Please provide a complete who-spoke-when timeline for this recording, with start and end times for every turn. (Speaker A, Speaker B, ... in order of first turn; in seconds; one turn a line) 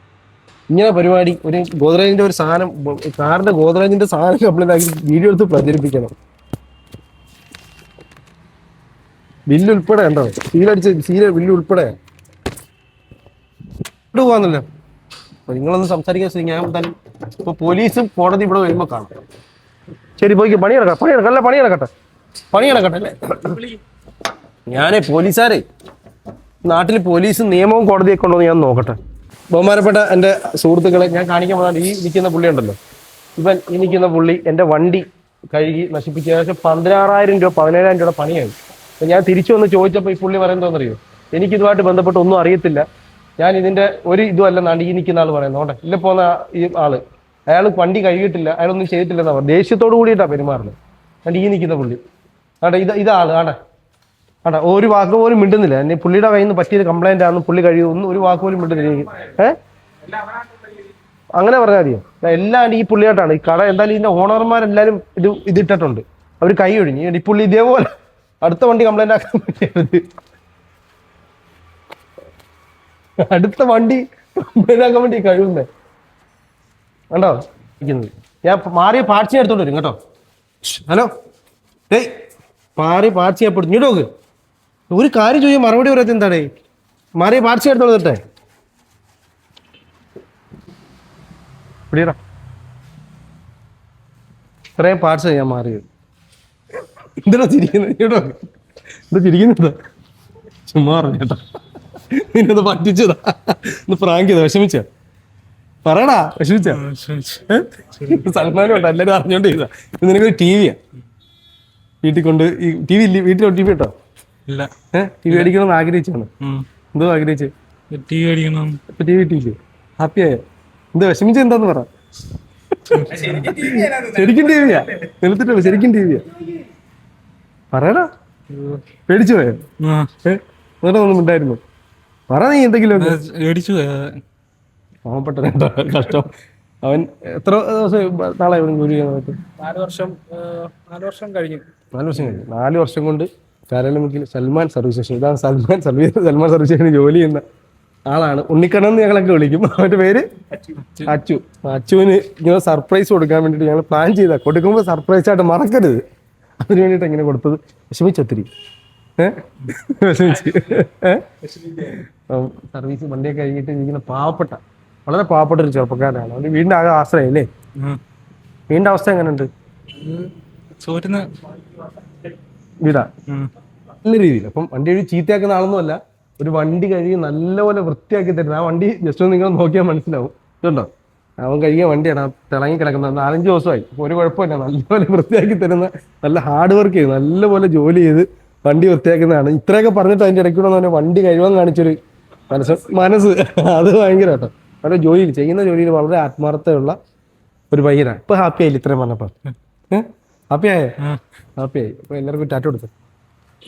Speaker A: 0.7-6.1
Speaker A: 9.5-11.9
Speaker A: 14.1-14.7
Speaker A: 15.5-19.1
Speaker A: 20.2-21.9
Speaker A: 22.5-23.6
Speaker A: 24.7-25.6
Speaker A: 26.6-29.0
Speaker A: 29.5-32.8
Speaker A: 33.4-42.8
Speaker A: 43.4-52.0
Speaker A: 52.6-53.6
Speaker A: 54.4-59.6
Speaker A: 61.4-67.9
Speaker A: 68.4-70.0
Speaker A: 73.2-75.7
Speaker A: 77.1-80.0
Speaker A: 80.7-81.1
Speaker A: 82.8-84.1
Speaker A: 84.9-86.5
Speaker A: 87.2-88.2
Speaker A: 91.9-92.2
Speaker A: 94.8-95.8
Speaker A: 97.2-98.4
Speaker A: 99.1-99.8
Speaker A: 100.7-101.4
Speaker A: 102.1-104.8
Speaker A: 105.8-106.8
Speaker B: 106.6-108.5
Speaker A: 108.0-110.8
Speaker A: 112.0-113.9
Speaker A: 114.9-116.3
Speaker B: 115.3-115.5
Speaker B: 116.4-116.7
Speaker A: 116.9-117.5
Speaker B: 117.9-118.8
Speaker A: 118.9-120.4
Speaker A: 120.9-121.9
Speaker A: 122.8-126.2
Speaker B: 122.9-123.3
Speaker C: 123.1-124.8
Speaker A: 127.7-128.1
Speaker B: 128.5-128.8
Speaker A: 129.1-129.6
Speaker B: 129.8-130.2
Speaker A: 130.3-131.6
Speaker A: 132.3-133.2
Speaker B: 132.9-134.2
Speaker A: 135.1-136.3
Speaker A: 136.8-139.4
Speaker C: 139.6-141.7
Speaker A: 141.9-147.4
Speaker A: 148.1-150.2
Speaker A: 151.0-156.0
Speaker A: 156.6-158.5
Speaker A: 159.2-161.2
Speaker A: 161.8-167.5
Speaker A: 168.7-169.5
Speaker B: 170.0-171.3
Speaker A: 172.8-173.1
Speaker A: 174.0-192.0
Speaker A: 192.5-197.0
Speaker A: 197.7-199.3
Speaker A: 199.9-201.0
Speaker A: 201.6-202.9